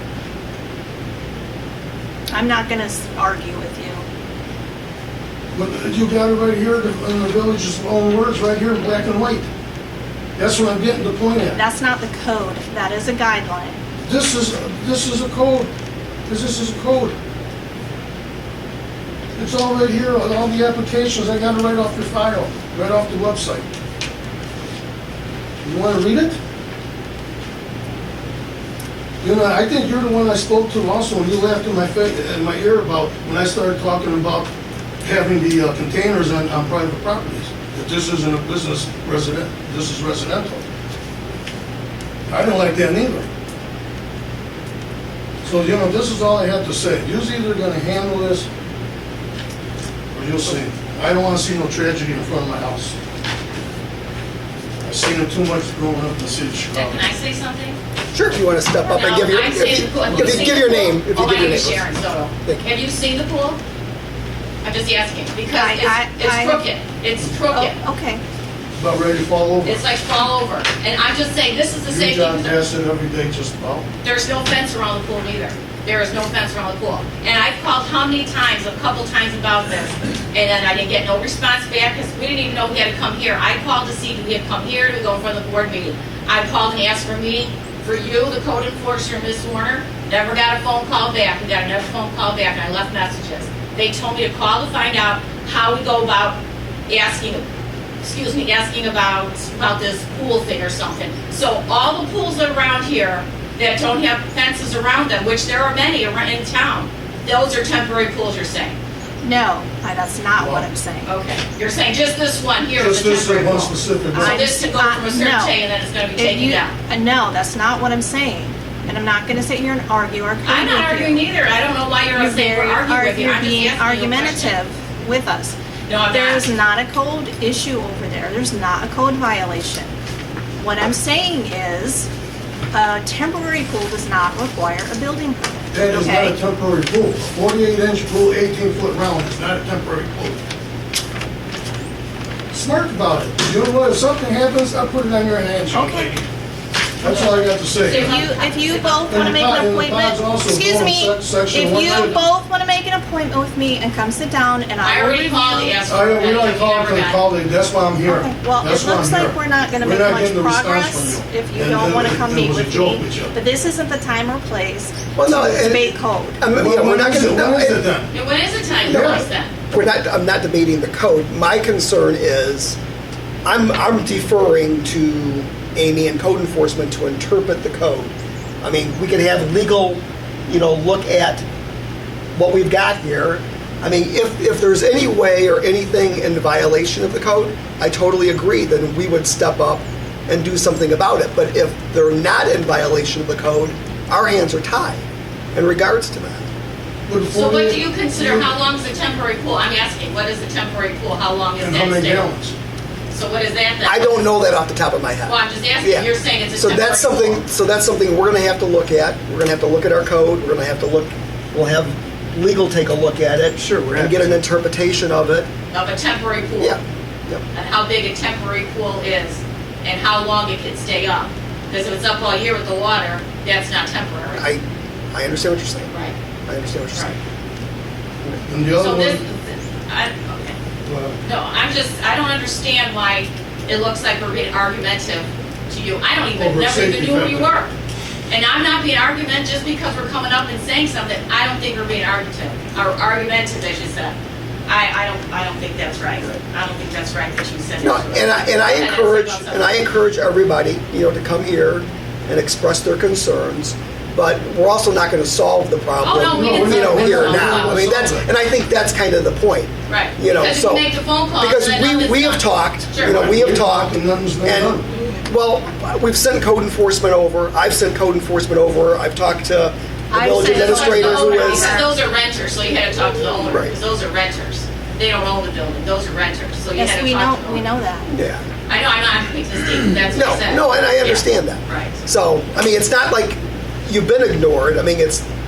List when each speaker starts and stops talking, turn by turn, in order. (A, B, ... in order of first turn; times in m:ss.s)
0:02.3-0:04.0 A
0:05.5-0:09.5 B
0:10.4-0:11.6 B
0:11.5-0:13.8 A
0:14.0-0:15.7 B
0:16.3-0:17.1 B
0:19.4-0:23.6 B
0:25.6-0:26.4 B
0:29.2-0:34.5 B
0:35.0-0:40.6 B
0:42.3-0:43.3 B
0:45.4-0:48.5 B
0:50.1-0:53.0 B
0:54.8-0:57.1 B
0:56.7-0:57.8 C
0:58.1-1:01.9 D
0:58.8-1:03.6 C
1:00.2-1:00.5 B
1:04.6-1:07.8 C
1:05.5-1:06.6 A
1:07.5-1:08.2 A
1:08.8-1:09.8 B
1:09.6-1:12.6 C
1:11.8-1:13.9 B
1:14.0-1:37.4 C
1:38.0-1:48.8 C
1:49.2-1:51.1 A
1:50.4-1:50.6 B
1:51.0-1:56.7 C
1:52.8-1:54.4 B
1:54.1-1:55.6 A
1:56.2-2:01.2 A
2:00.4-2:04.5 C
2:02.1-2:05.6 A
2:05.9-2:06.4 C
2:06.1-2:09.9 A
2:10.6-2:12.1 A
2:12.7-2:16.3 A
2:15.7-2:20.4 B
2:22.5-2:26.2 B
2:25.7-2:26.1 A
2:27.0-2:28.2 B
2:27.0-2:29.3 C
2:27.9-2:35.8 A
2:29.1-2:32.2 B
2:31.8-2:32.2 C
2:34.8-2:37.2 C
2:35.9-2:43.3 B
2:38.0-2:46.4 A
2:45.1-2:47.8 D
2:46.5-2:48.1 B
2:48.1-2:49.5 C
2:48.9-2:49.2 B
2:48.9-2:52.8 D
2:53.4-3:01.4 D
3:02.3-3:15.0 D
3:15.5-3:16.5 D
3:17.1-3:18.5 B
3:17.3-3:22.3 C
3:21.6-3:22.5 B
3:23.1-3:24.2 C
3:23.8-3:35.5 D
3:25.2-3:27.4 C
3:35.7-3:36.8 C
3:36.6-3:37.4 D
3:37.5-3:44.5 C
3:44.3-3:45.9 D
3:46.5-3:47.2 D
3:48.4-3:49.2 B
3:48.8-3:50.6 C
3:50.8-3:51.2 B
3:51.2-3:57.7 C
3:56.4-3:57.5 B
3:58.3-4:04.2 C
4:04.7-4:09.8 C
4:07.8-4:20.8 D
4:16.0-4:17.8 C
4:16.3-4:18.3 B
4:19.9-4:23.2 C
4:21.4-4:31.8 D
4:23.0-4:24.8 B
4:30.1-4:31.9 A
4:30.4-4:37.6 C
4:33.4-4:33.7 D
4:36.8-4:38.1 A
4:38.1-4:38.4 D
4:38.7-4:41.9 C
4:40.1-4:45.2 D